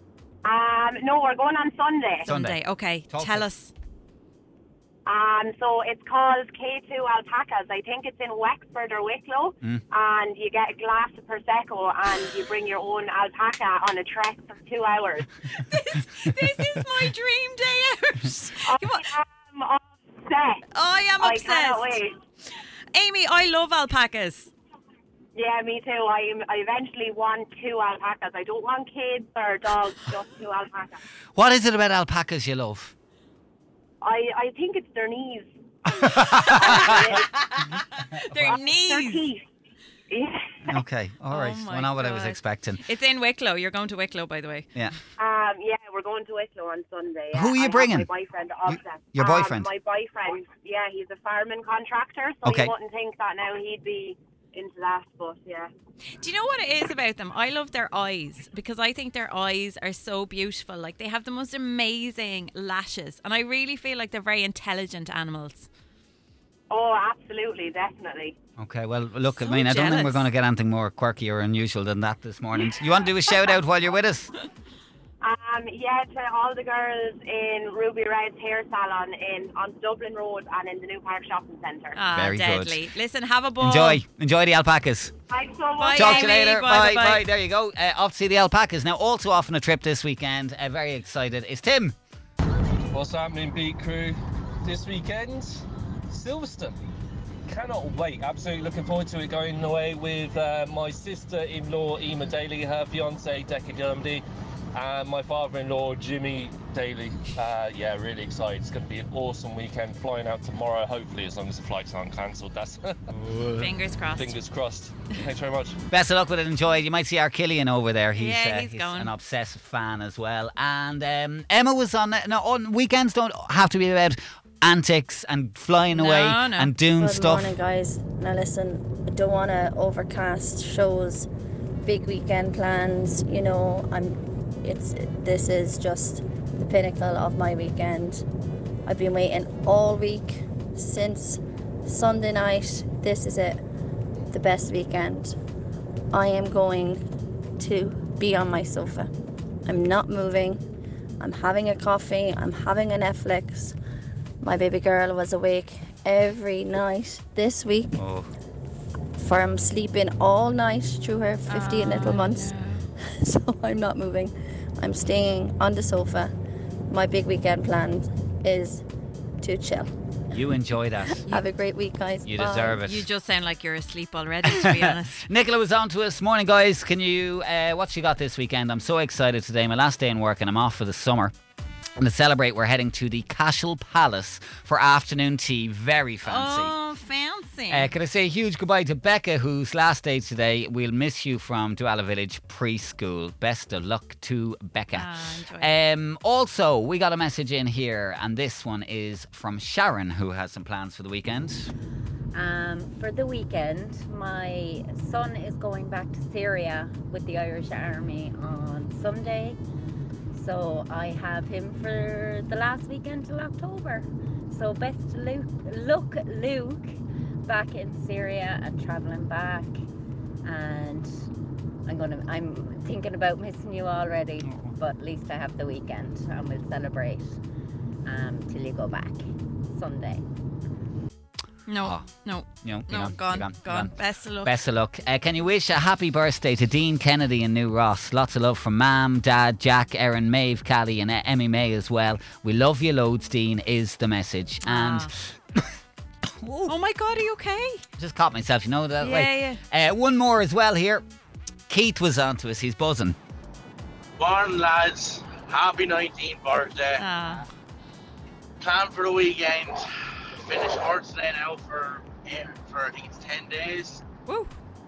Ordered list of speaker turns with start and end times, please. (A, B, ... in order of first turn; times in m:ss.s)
0:00.4-0:02.3 A
0:02.2-0:02.6 B
0:02.2-0:03.7 C
0:03.1-0:03.5 B
0:05.0-0:15.3 A
0:15.5-0:19.1 C
0:18.6-0:20.6 A
0:20.7-0:22.0 C
0:21.2-0:22.1 A
0:22.9-0:24.5 C
0:25.3-0:31.0 A
0:31.4-0:32.9 B
0:34.0-0:35.5 A
0:35.9-0:37.2 B
0:36.4-0:37.7 A
0:36.4-0:37.0 C
0:37.7-0:39.2 C
0:38.4-0:39.4 A
0:40.1-0:40.6 A
0:40.6-0:42.8 B
0:41.3-0:44.7 C
0:45.2-0:55.7 A
0:47.3-0:48.1 B
0:48.7-0:49.7 B
0:52.4-0:52.7 B
0:56.2-1:05.7 C
1:06.7-1:08.3 A
1:08.6-1:14.3 B
1:09.4-1:10.3 C
1:15.2-1:22.0 A
1:22.0-1:24.0 C
1:22.1-1:22.8 B
1:23.6-1:25.1 B
1:25.3-1:26.3 A
1:25.8-1:27.2 C
1:25.9-1:32.0 B
1:32.9-1:36.8 D
1:37.5-1:55.8 D
1:53.6-1:54.4 C
1:55.9-2:07.5 B
1:58.2-1:59.1 C
2:05.9-2:06.7 C
2:06.9-2:11.3 E
2:11.8-2:18.2 E
2:18.8-2:23.6 E
2:24.3-2:25.4 E
2:26.1-2:27.0 E
2:27.6-2:29.1 E
2:29.6-2:30.6 E
2:31.2-2:33.8 E
2:34.4-2:38.0 E
2:38.0-2:38.3 B
2:39.2-2:42.5 E
2:41.5-2:42.8 C
2:43.2-2:46.3 E
2:46.9-2:48.8 E
2:49.4-2:49.9 E
2:50.3-2:51.2 B
2:51.3-2:52.8 E
2:52.2-2:53.0 B
2:52.7-2:55.2 C
2:54.4-3:01.3 B
3:02.0-3:06.7 B
3:06.2-3:07.9 C
3:07.7-3:15.1 B
3:14.9-3:15.7 C
3:15.6-3:21.7 B
3:22.3-3:29.6 F
3:30.3-3:36.9 F
3:37.4-3:39.7 F
3:40.4-3:41.1 F
3:41.9-3:47.4 F
3:44.4-3:44.8 B
3:48.0-3:50.2 F
3:51.7-3:54.6 C
3:51.8-3:52.1 B
3:52.6-3:53.9 B
3:54.4-4:05.7 B
4:04.6-4:05.1 C
4:06.3-4:06.7 B
4:06.7-4:07.8 C
4:08.0-4:11.0 B
4:09.0-4:09.6 C
4:11.7-4:13.2 B
4:14.2-4:17.0 G
4:17.0-4:17.4 C
4:18.6-4:19.9 G
4:20.4-4:24.0 G
4:24.2-4:24.5 C